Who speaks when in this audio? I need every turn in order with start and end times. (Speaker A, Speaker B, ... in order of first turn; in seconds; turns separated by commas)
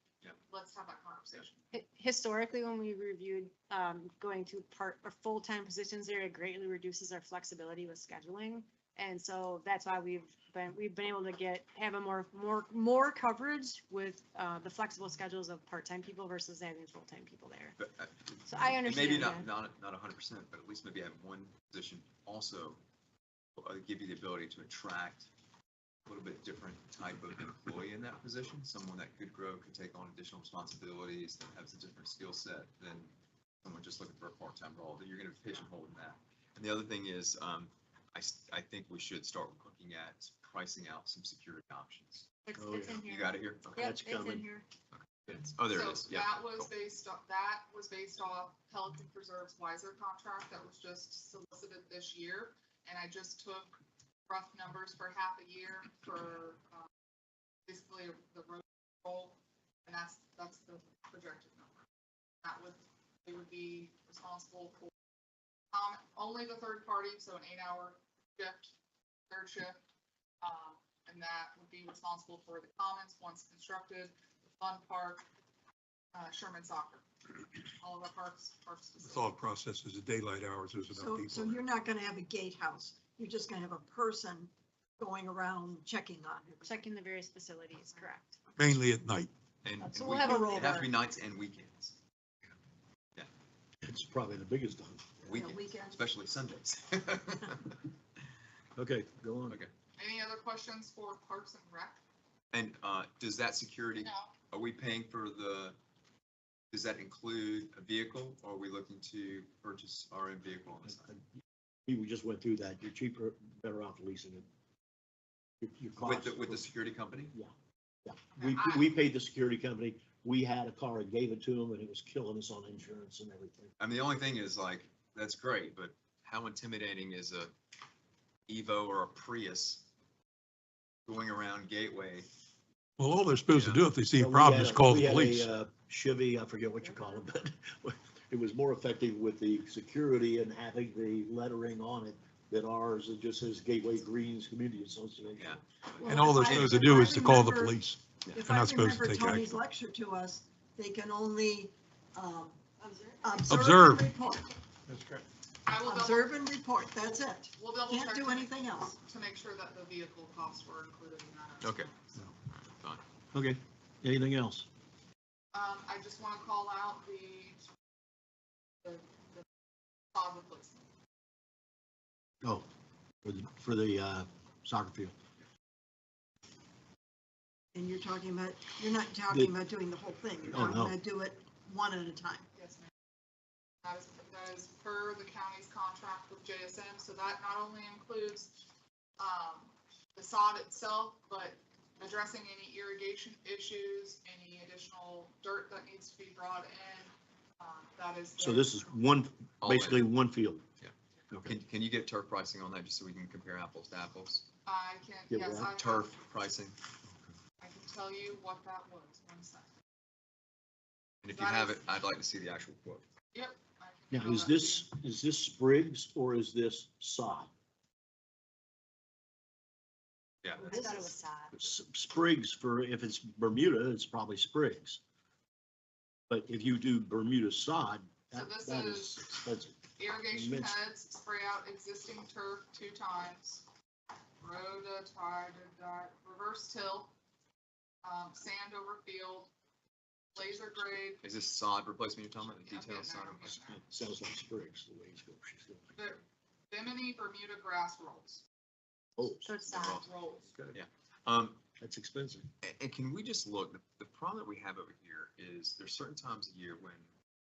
Speaker A: 0.4-1.6, Speaker B: 1.7-17.8, Speaker C: 17.8-22.8, Speaker B: 18.5-19.5, Speaker C: 23.6-25.3, Speaker C: 26.1-33.1, Speaker C: 33.6-42.3, Speaker B: 42.5-44.7, Speaker D: 42.6-43.0, Speaker C: 42.9-43.9, Speaker D: 43.8-44.5, Speaker C: 44.9-46.7, Speaker A: 45.7-53.7, Speaker A: 54.3-56.9, Speaker A: 57.7-61.8, Speaker A: 62.4-64.9, Speaker A: 65.7-68.7, Speaker A: 69.3-69.8, Speaker A: 70.4-75.2, Speaker A: 76.1-77.0, Speaker A: 77.8-79.4, Speaker E: 79.0-81.6, Speaker F: 80.9-86.9, Speaker B: 86.6-88.5, Speaker E: 88.6-89.3, Speaker C: 89.6-92.0, Speaker B: 89.8-90.9, Speaker F: 90.2-90.7, Speaker D: 93.8-95.2, Speaker C: 95.2-97.8, Speaker F: 95.3-96.0, Speaker D: 98.8-99.6, Speaker A: 100.0-102.0, Speaker C: 102.5-105.8, Speaker A: 104.0-104.3, Speaker C: 106.7-111.1, Speaker D: 110.9-111.2, Speaker D: 111.9-114.5, Speaker D: 115.6-116.7, Speaker C: 116.0-117.3, Speaker D: 118.1-123.7, Speaker A: 118.3-118.9, Speaker C: 123.8-127.5, Speaker C: 128.5-129.8, Speaker C: 131.1-132.3, Speaker E: 133.0-135.5, Speaker C: 133.5-133.9, Speaker D: 134.2-145.6, Speaker C: 145.4-146.3, Speaker F: 146.0-147.8, Speaker E: 146.1-149.5, Speaker F: 148.3-154.6, Speaker B: 153.2-153.5, Speaker E: 153.5-154.1, Speaker E: 154.9-155.2, Speaker A: 155.7-156.4, Speaker F: 155.8-158.9, Speaker A: 157.6-162.3, Speaker C: 161.6-161.9, Speaker C: 162.7-163.0, Speaker D: 163.3-164.7, Speaker A: 165.5-167.6, Speaker A: 168.8-169.4, Speaker A: 170.1-170.9, Speaker D: 173.2-175.2, Speaker F: 177.7-182.5, Speaker D: 180.5-181.0, Speaker A: 182.6-182.9, Speaker A: 183.8-188.7, Speaker A: 189.2-198.9, Speaker D: 198.4-200.7, Speaker C: 199.6-200.1, Speaker C: 200.8-204.5, Speaker D: 201.3-201.6, Speaker A: 204.7-206.2, Speaker D: 205.3-205.7, Speaker C: 205.8-206.8, Speaker A: 207.6-209.7, Speaker C: 211.2-213.1, Speaker A: 211.3-211.9, Speaker A: 213.3-214.9, Speaker D: 214.1-217.5, Speaker C: 220.4-220.7, Speaker B: 220.6-221.6, Speaker F: 220.6-221.1, Speaker D: 221.5-225.0, Speaker D: 226.3-229.8, Speaker A: 228.3-229.3, Speaker A: 230.0-233.7, Speaker D: 230.3-230.8, Speaker A: 234.4-237.1, Speaker A: 238.0-239.5, Speaker A: 240.3-241.2, Speaker C: 241.2-243.6, Speaker A: 242.6-243.8, Speaker D: 243.7-245.9, Speaker A: 245.9-248.4, Speaker D: 249.2-249.6, Speaker B: 249.4-250.0, Speaker C: 249.6-250.1, Speaker A: 249.8-250.8, Speaker C: 250.7-251.6, Speaker D: 251.8-252.5, Speaker C: 252.6-257.1